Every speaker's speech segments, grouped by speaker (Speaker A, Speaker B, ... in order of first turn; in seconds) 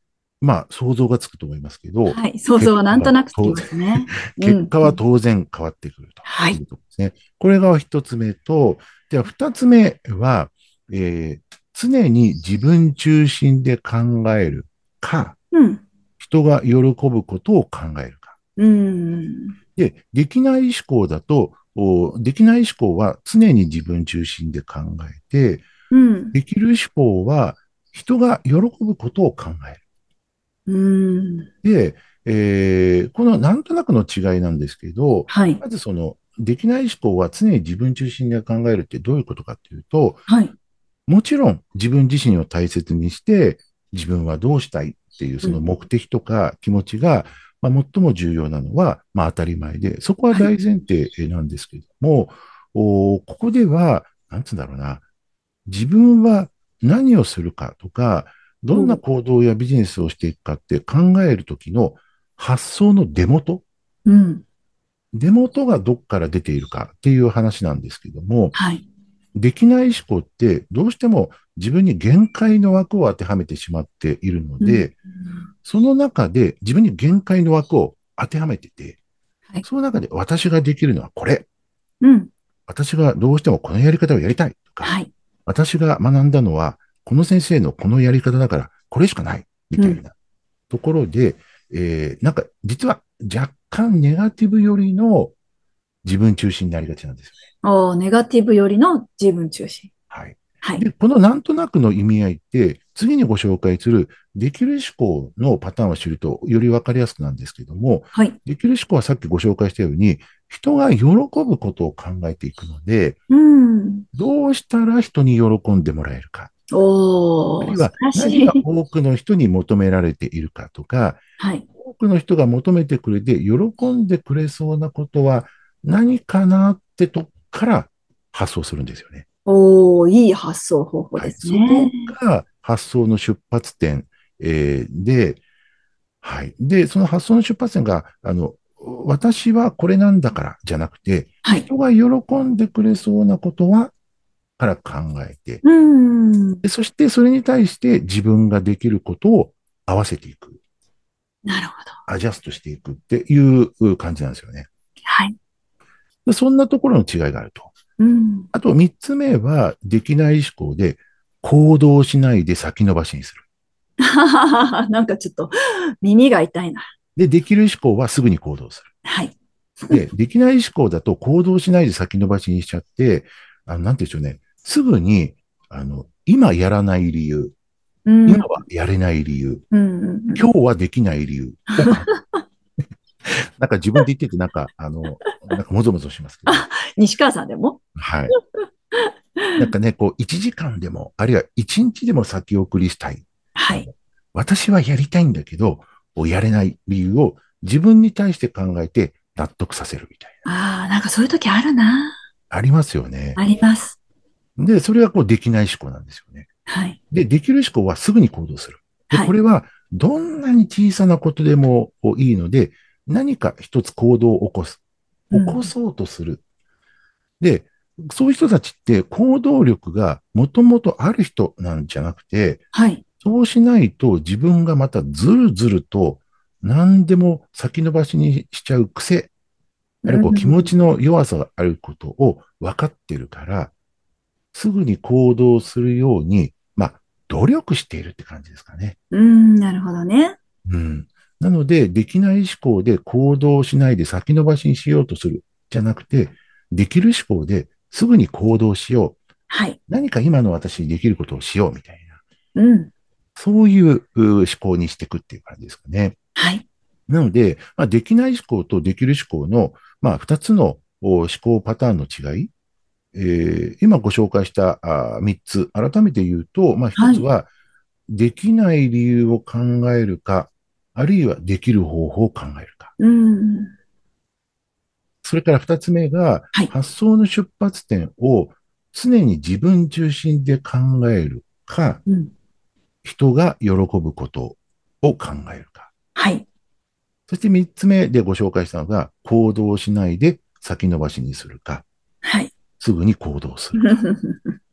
Speaker A: 0.4-15.4, 16.2-18.3, 19.8-25.6, 26.3-29.8, 31.6-40.2, 41.1-55.0, 55.7-63.6, 65.1-68.5, 69.4-74.9, 75.6-79.0, 79.6-81.5, 82.7-84.9, 85.5-90.1, 90.7-95.3, 96.0-97.4, 100.1-113.2, 114.1-116.5, 117.6-121.2, 121.8-129.2, 131.2-135.4, 136.2-143.9, 144.6-145.6, 146.6-150.6, 152.1-154.7, 156.3-157.7, 158.5-163.4, 167.2-168.9, 169.9-177.5, 178.3-179.6, 180.3-182.1, 183.2-186.7, 188.0-188.3, 189.6-200.4, 202.5-203.4, 204.6-206.5, 207.1-216.4, 217.4-222.7, 223.2-229.3, 230.1-233.7, 234.5-239.0, 240.7-249.2, 249.9-252.2, 253.4-256.2, 257.1-262.5, 263.1-267.5, 268.1-272.9, 275.2-282.0, 283.0-285.9, 287.3-291.9, 292.8-294.0
Speaker B: 2.1-5.0, 6.2-6.6, 15.5-15.8, 18.6-19.6, 25.9-26.4, 30.7-31.5, 35.3-35.6, 40.3-40.5, 58.7-59.0, 64.1-64.4, 68.5-68.8, 74.6-74.9, 82.0-82.3, 84.8-85.1, 97.6-99.9, 113.3-114.1, 116.7-118.6, 121.4-121.7, 129.5-132.1, 145.6-146.6, 151.5-152.0, 155.1-155.3, 158.0-158.5, 164.0-166.9, 169.1-170.0, 178.1-178.5, 179.7-180.5, 181.7-182.3, 186.5-187.8, 189.0-189.7, 193.6-193.9, 200.4-202.2, 203.4-204.0, 206.7-207.0, 215.3-215.7, 222.7-223.0, 230.0-230.7, 239.1-240.4, 249.5-249.8, 252.6-252.9, 256.4-256.6, 267.0-267.3, 273.0-273.7, 286.2-286.4, 292.2-292.5, 293.8-294.5